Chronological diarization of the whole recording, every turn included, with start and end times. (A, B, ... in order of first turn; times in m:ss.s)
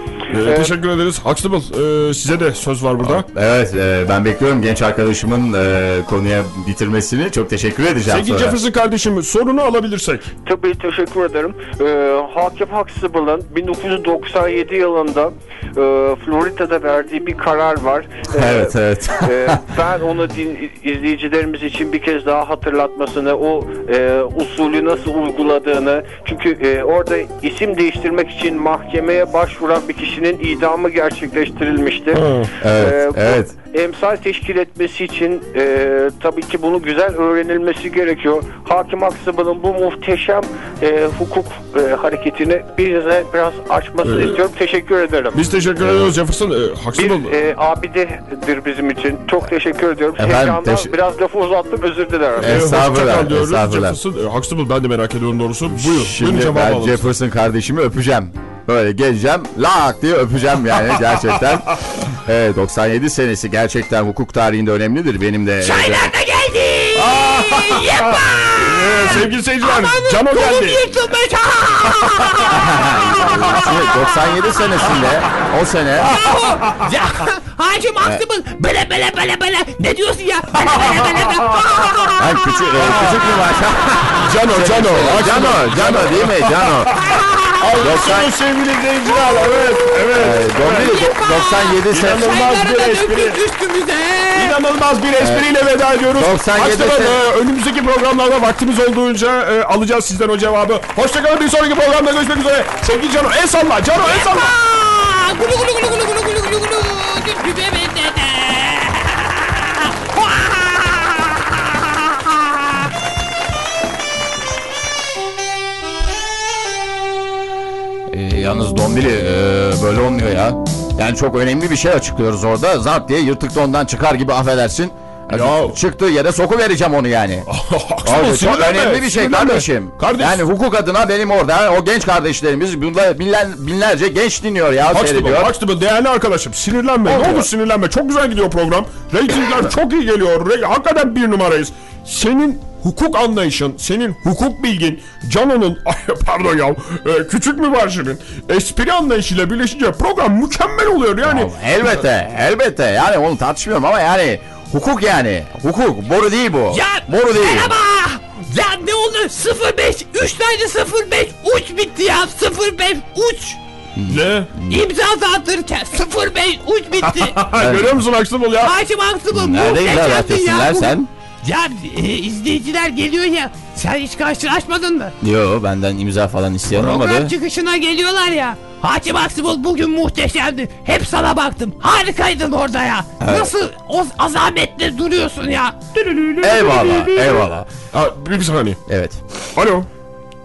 0:00.3-0:03.3 A
0:00.3-0:00.7 B
0:03.0-0:08.6 C
0:08.0-0:10.3 A
0:10.4-0:45.4 B
0:18.3-0:19.6 C
0:32.1-0:32.5 A
0:32.6-0:33.5 C
0:44.0-0:44.4 A
0:45.3-0:47.4 A
0:45.8-0:46.2 C
0:47.0-0:52.6 B
0:50.2-0:50.9 C
0:52.4-0:57.1 A
0:52.4-0:54.0 C
0:55.7-1:06.1 C
1:05.6-1:13.8 D
1:07.0-1:10.8 A
1:12.5-1:16.1 C
1:16.0-1:22.7 D
1:20.6-1:21.9 A
1:22.2-1:27.0 C
1:22.8-1:23.0 A
1:23.9-1:24.3 D
1:24.2-1:27.0 A
1:27.0-1:28.1 D
1:27.6-1:31.0 A
1:27.8-1:28.3 C
1:29.1-1:30.1 D
1:30.1-1:32.4 C
1:30.6-1:34.6 D
1:31.9-1:33.4 A
1:34.3-1:44.5 A
1:35.2-1:35.4 C
1:36.1-1:37.2 C
1:44.0-1:52.7 D
1:58.1-2:07.5 C
2:05.3-2:05.8 A
2:07.5-2:10.4 A
2:08.0-2:15.5 C
2:14.9-2:31.5 A
2:17.0-2:17.5 C
2:31.2-2:37.8 C
2:36.7-2:43.6 D
2:44.0-2:44.8 C
2:44.1-2:44.5 A
2:44.7-2:47.4 D
2:47.0-2:48.7 A
2:47.6-2:48.0 C
2:48.6-2:55.1 D
2:49.3-2:51.1 C
2:55.2-2:57.3 C
2:56.7-3:05.8 D
3:03.2-3:03.5 C
3:05.9-3:06.8 A
3:06.4-3:07.7 C
3:07.9-3:08.8 A
3:08.9-3:09.2 C
3:09.5-3:09.9 A